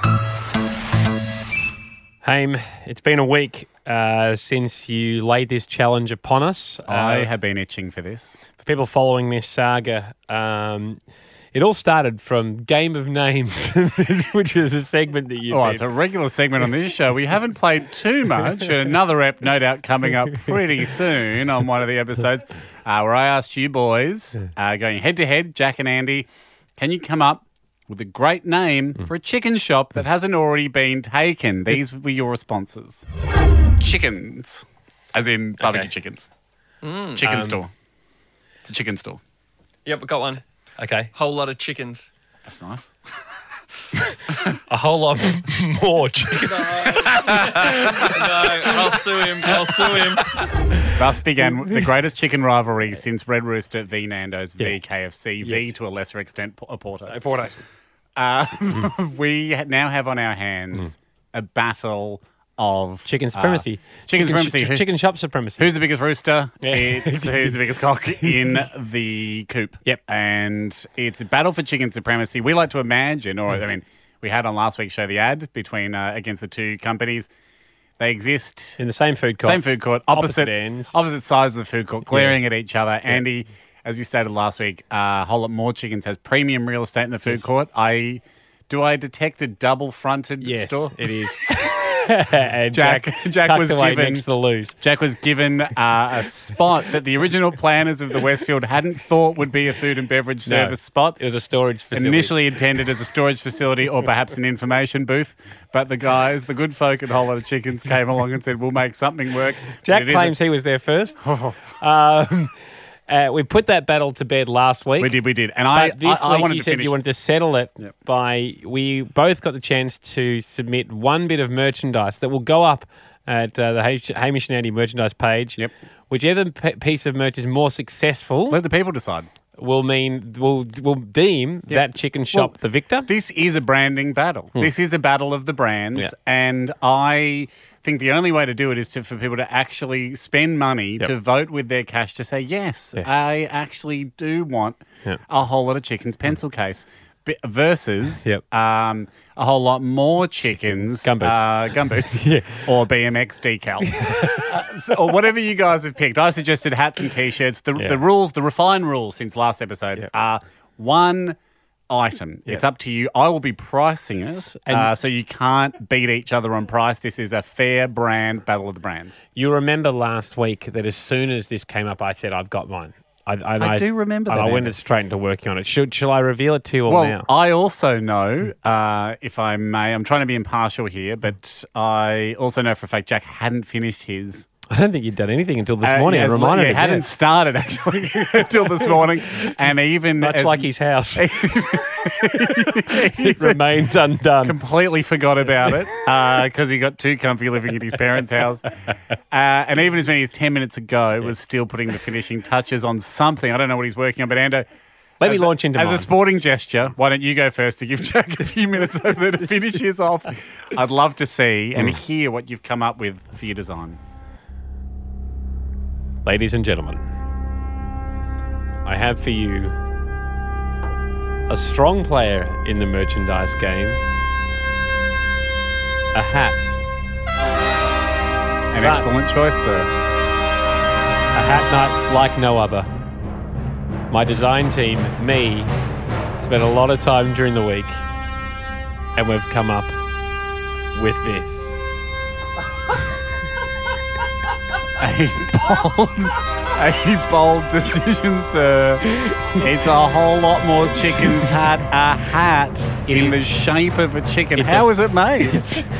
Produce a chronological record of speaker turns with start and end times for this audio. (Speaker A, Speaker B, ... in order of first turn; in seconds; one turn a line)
Speaker A: 2.2-7.3
Speaker B: 6.9-8.3
Speaker A: 8.6-11.0
Speaker A: 11.5-15.8
Speaker B: 15.5-33.0
Speaker B: 33.8-36.3
Speaker A: 35.6-35.9
Speaker C: 36.8-37.2
Speaker B: 37.1-37.7
Speaker A: 37.2-37.6
Speaker B: 38.6-39.2
Speaker C: 39.9-40.4
Speaker A: 40.8-41.1
Speaker C: 41.1-42.1
Speaker B: 42.5-42.9
Speaker A: 44.1-48.1
Speaker C: 46.5-50.3
Speaker B: 46.8-48.1
Speaker A: 50.4-51.0
Speaker B: 51.0-57.2
Speaker A: 55.4-55.7
Speaker A: 57.1-57.6
Speaker B: 58.2-64.9
Speaker A: 63.0-65.8
Speaker B: 65.6-77.3
Speaker A: 66.6-67.6
Speaker A: 68.2-68.6
Speaker B: 78.0-78.8
Speaker A: 78.8-81.0
Speaker B: 79.4-91.1
Speaker A: 82.1-82.4
Speaker A: 90.4-94.8
Speaker B: 92.7-94.3
Speaker B: 94.8-101.2
Speaker A: 100.5-102.4
Speaker B: 101.9-110.3
Speaker A: 109.8-111.2
Speaker B: 111.3-111.6
Speaker A: 111.8-112.5
Speaker A: 113.1-115.2
Speaker B: 115.0-117.0
Speaker A: 115.7-128.6
Speaker B: 128.5-129.3
Speaker A: 129.6-133.1
Speaker B: 131.7-161.4
Speaker A: 150.7-152.7
Speaker A: 153.9-154.5
Speaker B: 161.9-169.2
Speaker A: 169.4-177.3
Speaker B: 173.6-174.8
Speaker B: 176.9-184.5
Speaker A: 184.7-187.1
Speaker B: 185.8-193.6
Speaker A: 188.7-189.5
Speaker A: 190.2-191.3
Speaker A: 192.4-194.6
Speaker B: 194.4-198.7
Speaker B: 199.3-204.7
Speaker A: 205.2-206.1
Speaker B: 205.2-214.0
Speaker A: 216.3-217.0
Speaker A: 218.8-219.8
Speaker A: 221.5-224.0
Speaker A: 226.1-226.8
Speaker B: 228.7-229.9
Speaker A: 228.8-229.2
Speaker A: 231.3-232.9
Speaker A: 234.1-235.7
Speaker A: 236.4-238.0
Speaker A: 239.2-239.9
Speaker A: 240.9-241.8
Speaker B: 245.0-255.7
Speaker A: 249.1-249.6
Speaker A: 251.1-251.5
Speaker A: 253.1-253.5
Speaker A: 254.6-255.9